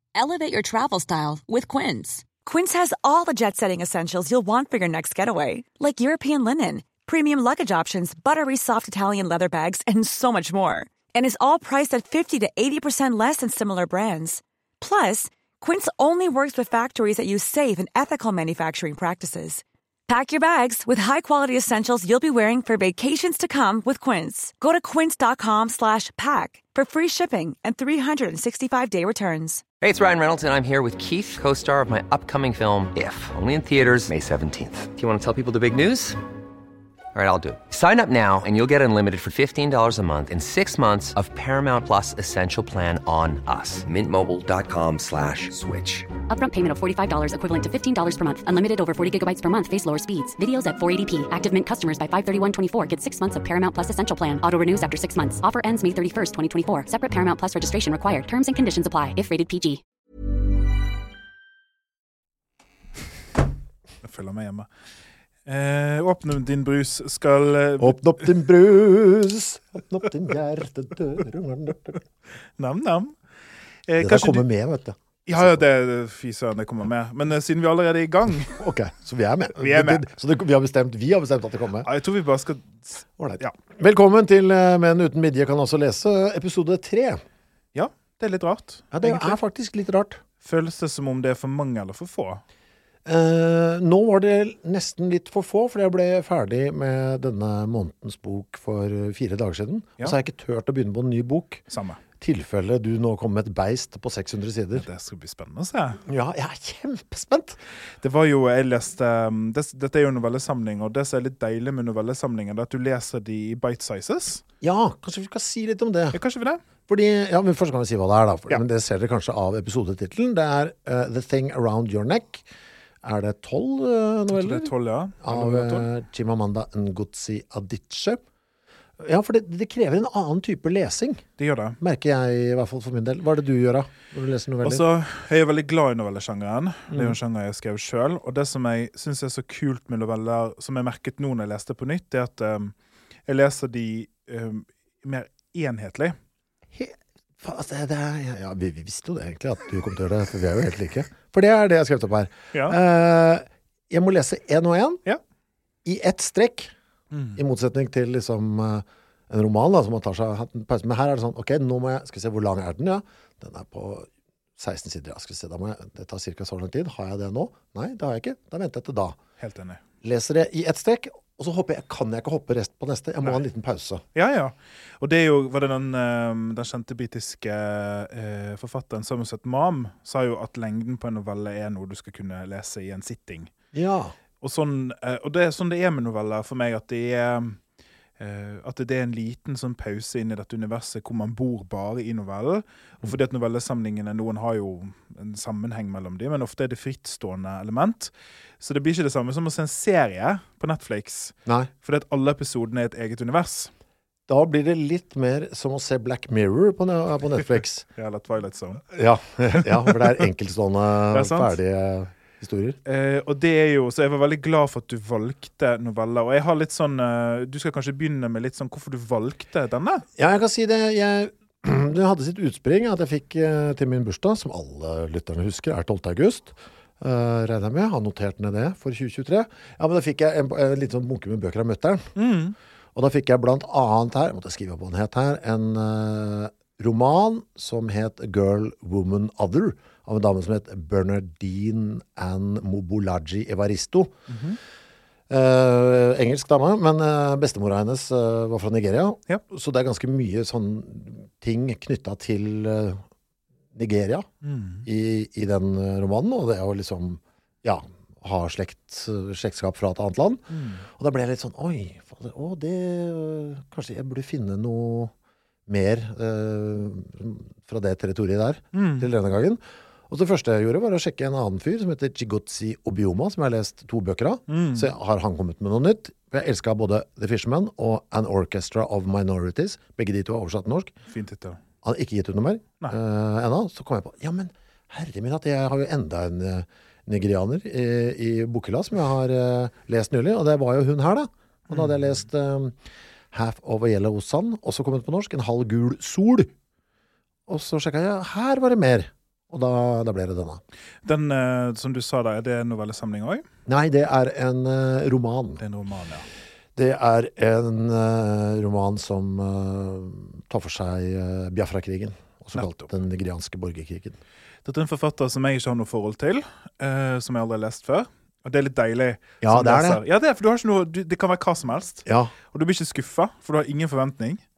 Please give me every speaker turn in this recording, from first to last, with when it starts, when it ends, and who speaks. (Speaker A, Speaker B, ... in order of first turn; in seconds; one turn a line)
Speaker A: 0.1-2.2
Speaker B: 0.4-29.6
Speaker C: 29.8-36.2
Speaker C: 37.1-46.1
Speaker D: 46.3-59.8
Speaker E: 64.0-64.7
Speaker E: 65.5-68.0
Speaker F: 67.8-72.0
Speaker E: 72.6-73.1
Speaker E: 73.9-74.4
Speaker F: 74.0-75.6
Speaker E: 75.2-78.6
Speaker F: 78.6-81.9
Speaker E: 79.5-80.0
Speaker E: 81.8-83.5
Speaker F: 83.2-87.2
Speaker E: 87.7-89.4
Speaker F: 88.9-90.2
Speaker E: 90.4-92.4
Speaker F: 93.0-101.6
Speaker E: 101.7-102.0
Speaker F: 102.2-104.8
Speaker E: 104.8-106.0
Speaker F: 106.0-107.6
Speaker E: 108.0-114.4
Speaker F: 114.6-116.2
Speaker E: 116.1-116.6
Speaker F: 116.9-122.4
Speaker F: 123.0-128.2
Speaker E: 124.3-125.8
Speaker F: 129.0-131.2
Speaker E: 131.4-131.8
Speaker F: 131.8-134.8
Speaker E: 134.6-142.7
Speaker F: 136.9-137.2
Speaker E: 143.3-146.2
Speaker F: 146.7-155.0
Speaker F: 155.8-156.7
Speaker E: 157.1-157.4
Speaker F: 157.3-169.2
Speaker E: 169.4-169.8
Speaker F: 170.0-174.0
Speaker E: 174.1-183.5
Speaker F: 183.7-184.1
Speaker E: 184.4-187.6
Speaker E: 188.2-203.7
Speaker F: 204.3-207.8
Speaker E: 207.9-208.8
Speaker F: 208.9-212.8
Speaker E: 209.5-210.0
Speaker E: 211.1-211.5
Speaker E: 212.8-220.1
Speaker F: 220.2-232.1
Speaker E: 232.2-232.5
Speaker F: 232.9-244.1
Speaker E: 244.3-244.6
Speaker F: 245.3-253.0
Speaker F: 253.7-254.3
Speaker E: 254.4-254.9
Speaker F: 254.8-265.1
Speaker E: 260.5-260.8
Speaker F: 265.7-280.9
Speaker E: 268.7-269.1
Speaker E: 274.5-274.9
Speaker E: 281.1-281.6
Speaker F: 281.8-292.8
Speaker E: 291.7-291.9
Speaker F: 293.3-296.5
Speaker F: 297.5-300.6
Speaker E: 301.0-303.4
Speaker F: 303.6-305.6
Speaker E: 305.6-306.3
Speaker F: 306.8-314.2
Speaker E: 312.5-312.9
Speaker E: 314.6-324.4
Speaker F: 319.4-320.0
Speaker F: 322.1-322.3